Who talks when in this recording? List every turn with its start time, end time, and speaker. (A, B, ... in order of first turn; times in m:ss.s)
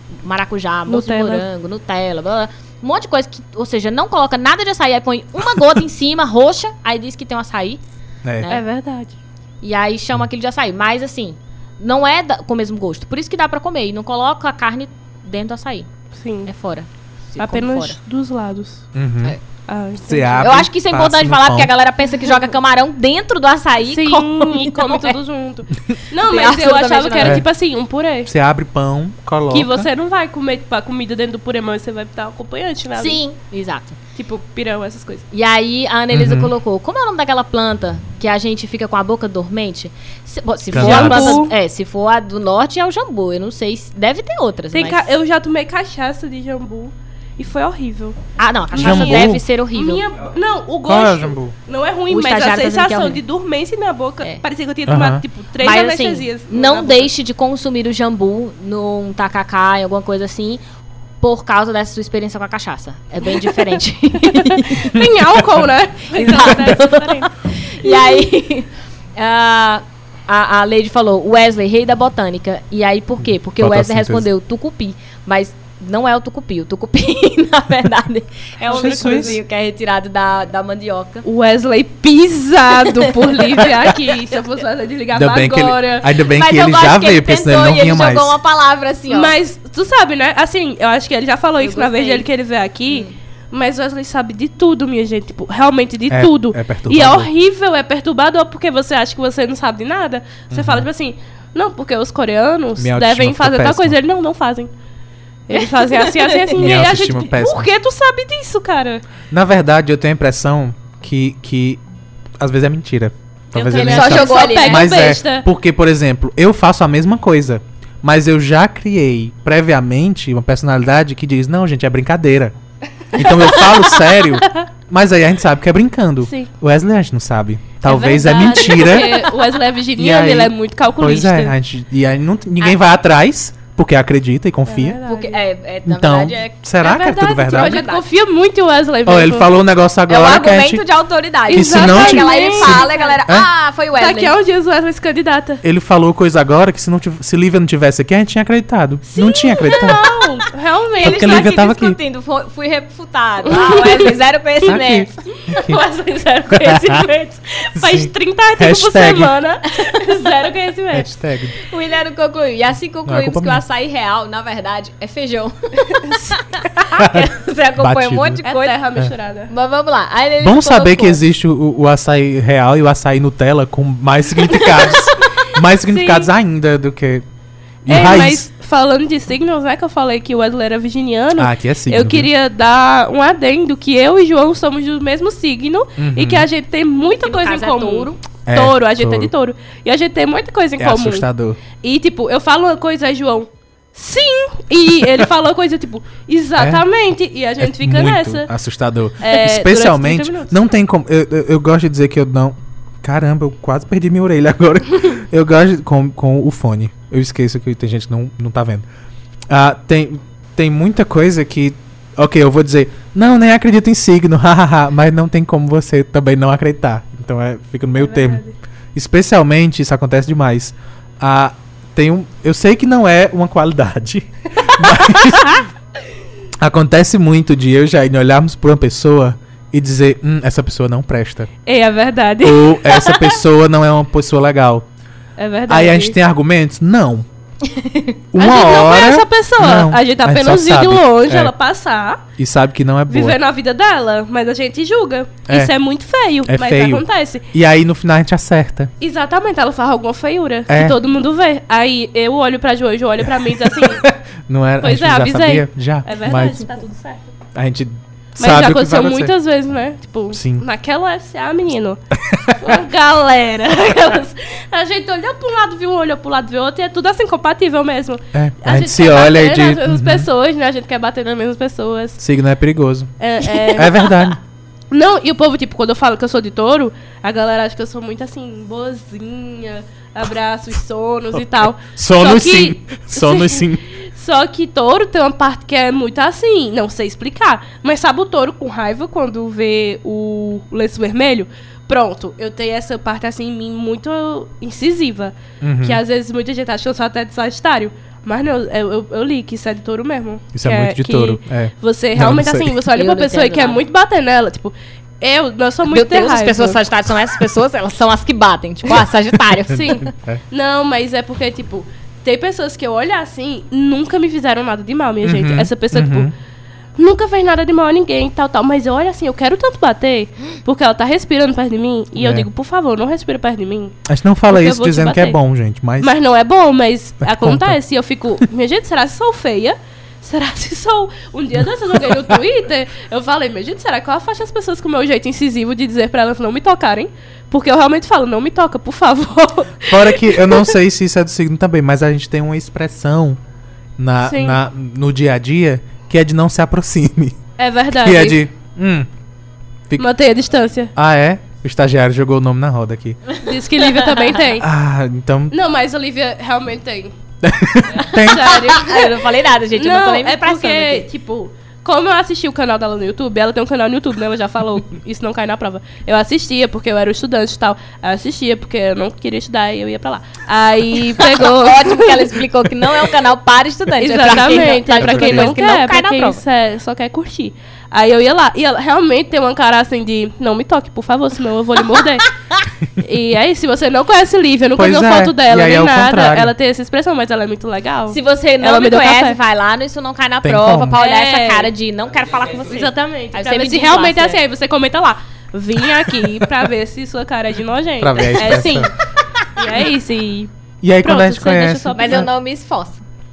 0:00.2-0:07.8 A
0:00.9-0:01.4 B
0:08.2-0:08.5 C
0:08.5-0:09.2 B
0:09.6-0:15.9 A
0:16.2-0:16.5 B
0:16.5-0:18.0 A
0:17.4-0:18.9 B
0:19.0-0:19.4 C
0:19.7-0:20.5 B
0:20.0-0:21.7 C
0:20.4-0:25.2 A
0:23.9-0:28.3 B
0:26.2-0:27.4 A
0:27.2-0:27.5 C
0:28.2-0:29.9 C
0:29.5-0:33.2 B
0:33.0-0:34.0 A
0:34.2-0:35.3 B
0:35.3-0:45.0 A
0:36.1-0:36.5 C
0:40.7-0:41.4 C
0:40.8-0:41.5 B
0:44.7-0:48.2 B
0:48.4-0:50.1 A
0:48.7-0:57.1 B
0:48.8-0:49.4 C
0:50.8-0:51.6 C
0:52.1-0:53.2 A
0:54.9-0:55.2 C
0:55.6-1:00.6 A
1:01.2-1:05.0 A
1:04.2-1:07.3 B
1:06.1-1:21.2 A
1:07.8-1:08.1 B
1:13.6-1:14.2 C
1:18.6-1:19.4 B
1:18.7-1:19.4 C
1:21.2-1:26.1 B
1:22.9-1:23.4 A
1:25.1-1:28.3 C
1:26.2-1:29.3 A
1:29.1-1:44.7 B
1:31.6-1:32.3 A
1:36.1-1:37.3 C
1:40.5-1:40.9 C
1:42.8-1:44.0 C
1:45.5-1:49.0 B
1:45.5-1:46.6 A
1:46.5-1:47.7 C
1:49.3-1:51.8 C
1:52.4-2:02.5 C
1:53.6-1:55.5 B
1:53.6-1:54.9 A
2:03.1-2:04.7 B
2:03.1-2:09.2 C
2:07.9-2:11.5 B
2:08.3-2:09.2 A
2:10.0-2:15.0 C
2:14.7-2:15.4 B
2:15.1-2:16.6 A
2:15.9-2:17.9 C
2:16.8-2:19.5 B
2:17.5-2:18.0 A
2:19.1-2:20.8 C
2:20.1-2:24.3 A
2:21.5-2:23.2 B
2:21.5-2:23.5 C
2:24.0-2:25.6 B
2:25.6-2:30.0 C
2:29.1-2:31.6 B
2:29.7-2:30.1 A
2:31.0-2:32.0 C
2:31.0-2:37.3 A
2:33.4-2:34.1 B
2:34.7-2:35.8 C
2:35.5-2:35.8 B
2:36.5-2:41.1 B
2:36.7-2:37.0 C
2:37.8-2:39.3 C
2:39.8-2:40.1 A
2:40.9-2:41.6 C
2:41.6-2:48.8 A
2:43.1-2:43.6 C
2:46.0-2:46.3 B
2:47.0-2:48.4 C
2:48.4-2:49.5 B
2:49.5-2:51.2 A
2:50.4-2:57.2 C
2:54.6-2:56.3 B
2:57.8-2:58.5 C
2:57.9-3:11.2 B
3:01.4-3:02.3 C
3:06.0-3:06.5 C
3:07.2-3:08.2 A
3:08.5-3:09.3 C
3:10.8-3:11.6 C
3:11.8-3:18.5 B
3:16.6-3:16.8 C
3:17.6-3:28.8 C
3:19.2-3:20.6 B
3:29.5-3:38.4 C
3:38.0-3:38.6 B
3:38.9-3:45.6 C
3:46.6-3:51.5 C
3:51.7-3:53.4 B
3:52.4-3:54.9 C
3:55.4-3:56.2 B
3:55.7-3:57.3 C
3:57.7-3:58.2 A
3:58.3-4:01.5 C
3:58.4-4:02.2 B
4:02.4-4:03.4 C
4:03.1-4:07.4 B
4:05.5-4:05.7 C
4:06.5-4:08.9 C
4:09.0-4:14.1 B
4:10.7-4:11.0 C
4:13.2-4:16.6 C
4:14.8-4:17.2 B
4:17.6-4:19.3 C
4:18.4-4:22.0 B
4:20.3-4:20.6 C
4:22.2-4:22.8 C
4:22.6-4:32.2 B
4:28.3-4:30.3 C
4:32.2-4:33.1 C
4:33.2-4:34.3 B
4:33.7-4:34.4 C
4:34.9-5:06.8 B
4:41.9-4:43.8 C
4:55.6-4:56.0 C
5:00.5-5:02.8 C
5:03.0-5:03.8 A
5:05.9-5:10.1 A
5:09.7-5:16.3 B
5:10.0-5:10.4 C
5:15.2-5:16.3 C
5:17.0-5:24.0 B
5:22.2-5:22.5 C
5:24.1-5:26.1 C
5:24.5-5:25.4 B
5:26.0-5:40.8 B
5:27.2-5:27.8 C
5:39.9-5:43.4 C
5:44.0-5:47.4 C
5:44.2-5:44.6 B
5:47.6-5:48.4 B
5:47.9-5:49.1 C
5:50.0-5:50.9 B
5:51.0-5:53.2 C
5:53.4-5:54.4 A
5:53.4-5:54.7 B
5:54.6-5:55.6 C
5:55.5-5:57.1 B
5:57.4-5:58.6 C
5:57.9-6:01.0 A
5:58.2-6:12.4 B
6:11.2-6:16.4 A
6:14.0-6:22.3 B
6:15.0-6:15.6 C
6:22.2-6:22.6 A
6:23.0-6:29.4 B
6:24.8-6:26.5 C
6:28.1-6:34.4 A
6:30.4-6:31.0 C
6:30.9-6:31.7 B
6:32.7-6:38.9 B
6:38.0-6:38.9 C
6:39.5-6:40.5 B
6:40.8-6:42.3 C
6:41.0-6:42.3 B
6:41.9-6:43.0 A